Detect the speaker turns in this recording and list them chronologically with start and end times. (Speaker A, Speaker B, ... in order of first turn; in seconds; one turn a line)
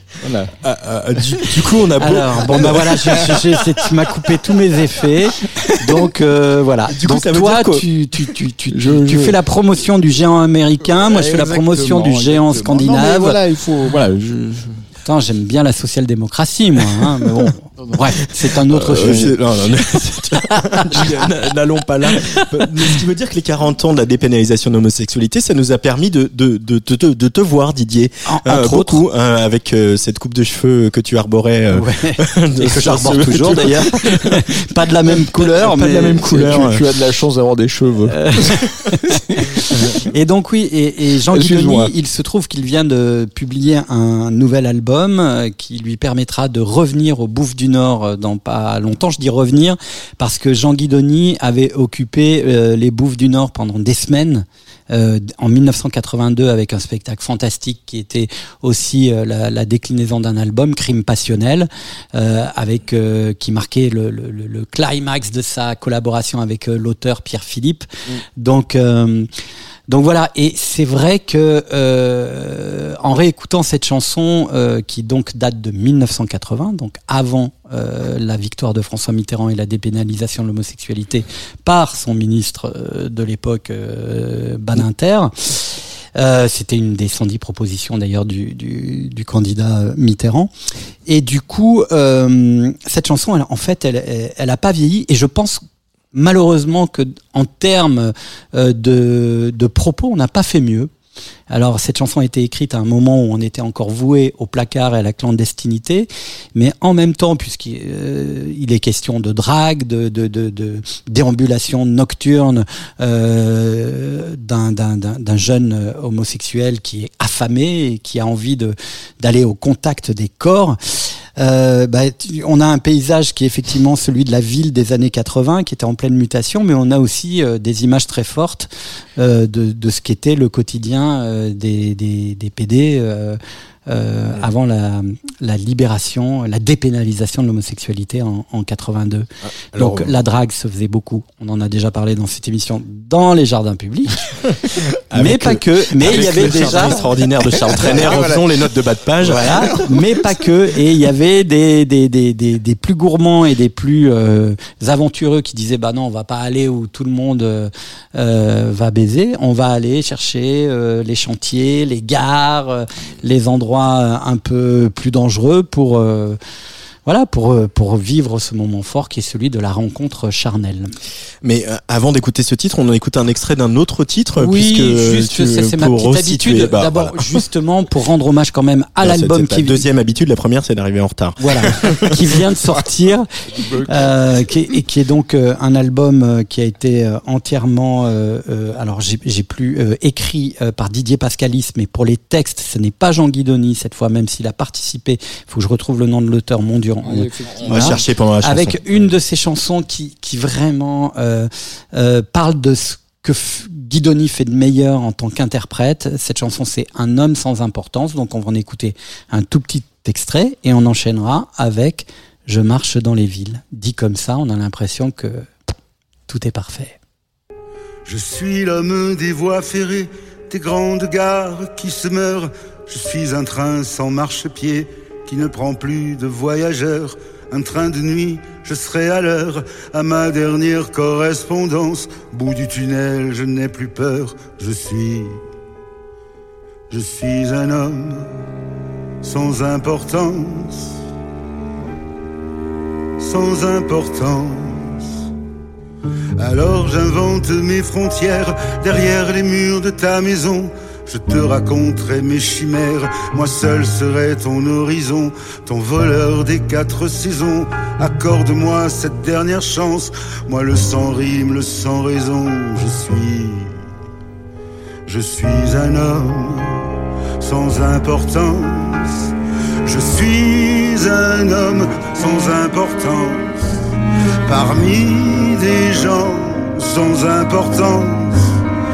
Speaker A: 0.2-0.5
Speaker B: 0.6-3.4
Speaker C: 2.0-13.4
Speaker B: 6.9-7.8
Speaker A: 8.7-9.3
Speaker A: 10.9-14.8
Speaker C: 15.0-19.4
Speaker B: 18.7-34.4
Speaker C: 20.7-21.2
Speaker C: 28.3-29.0
Speaker C: 31.7-36.7
Speaker B: 35.4-36.8
Speaker A: 36.3-38.6
Speaker C: 38.1-39.0
Speaker C: 40.0-69.3
Speaker A: 41.3-41.9
Speaker C: 69.9-90.5
Speaker C: 91.1-95.6
Speaker C: 96.1-100.9
Speaker C: 101.5-144.2
Speaker B: 139.7-140.1
Speaker B: 145.1-149.8
Speaker C: 145.1-147.0
Speaker A: 146.0-148.5
Speaker C: 147.7-148.3
Speaker A: 149.3-149.8
Speaker C: 149.3-166.4
Speaker C: 167.1-170.9
Speaker B: 171.4-177.4
Speaker C: 174.4-179.8
Speaker B: 179.0-182.2
Speaker C: 181.4-183.3
Speaker A: 183.5-184.3
Speaker C: 183.9-215.5
Speaker A: 197.0-198.0
Speaker B: 197.6-199.2
Speaker C: 216.3-217.0
Speaker D: 218.1-235.4
Speaker D: 236.9-238.3
Speaker D: 239.2-240.9
Speaker D: 243.2-245.0
Speaker D: 246.4-263.8
Speaker D: 265.1-266.8
Speaker D: 267.4-269.3
Speaker D: 269.9-273.5
Speaker D: 274.4-278.4